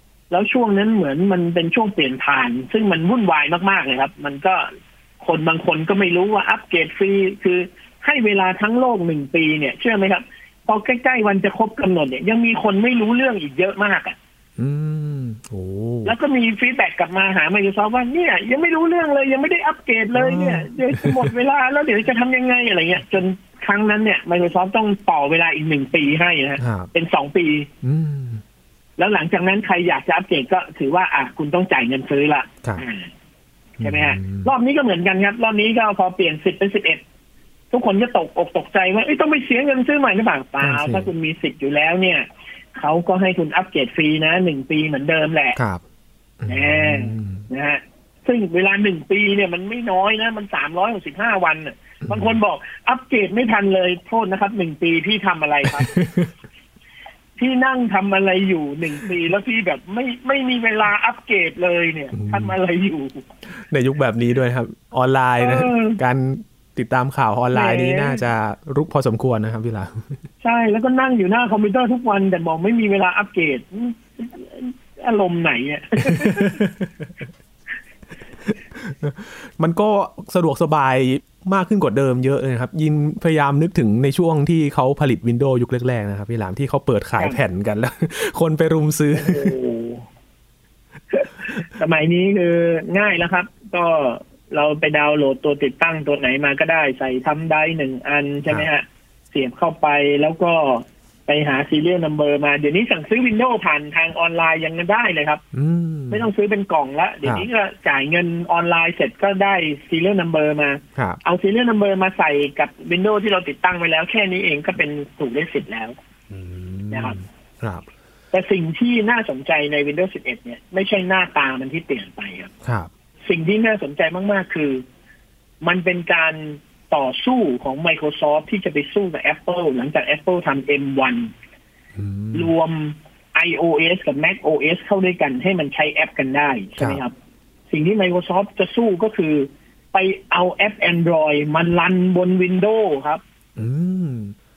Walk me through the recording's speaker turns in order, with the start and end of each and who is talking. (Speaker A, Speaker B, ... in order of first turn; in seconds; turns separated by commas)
Speaker A: 0.3-4.7, Speaker A: 5.2-14.2, Speaker B: 14.6-16.1, Speaker A: 16.0-27.7, Speaker B: 20.1-21.3, Speaker B: 26.6-26.9, Speaker B: 27.8-28.4, Speaker A: 29.0-33.1, Speaker B: 33.8-34.5, Speaker A: 33.8-37.0, Speaker A: 37.7-45.6, Speaker B: 40.6-41.1, Speaker B: 45.6-45.8, Speaker B: 46.4-47.4, Speaker A: 46.5-55.9, Speaker B: 52.0-52.4, Speaker B: 55.8-56.3, Speaker A: 57.4-63.3, Speaker B: 62.1-62.5, Speaker B: 63.5-70.2, Speaker A: 65.4-66.0, Speaker A: 67.5-68.2, Speaker A: 70.4-76.6, Speaker B: 76.1-77.1, Speaker B: 78.5-89.5, Speaker A: 89.1-90.0, Speaker A: 91.1-105.4, Speaker B: 105.5-106.3, Speaker A: 106.1-115.9, Speaker B: 116.3-117.9, Speaker A: 116.9-117.2, Speaker A: 118.3-122.5, Speaker B: 122.6-122.9, Speaker A: 123.2-124.8, Speaker A: 125.6-131.3, Speaker B: 131.9-132.5, Speaker A: 132.3-137.1, Speaker A: 137.7-143.2, Speaker B: 143.6-144.3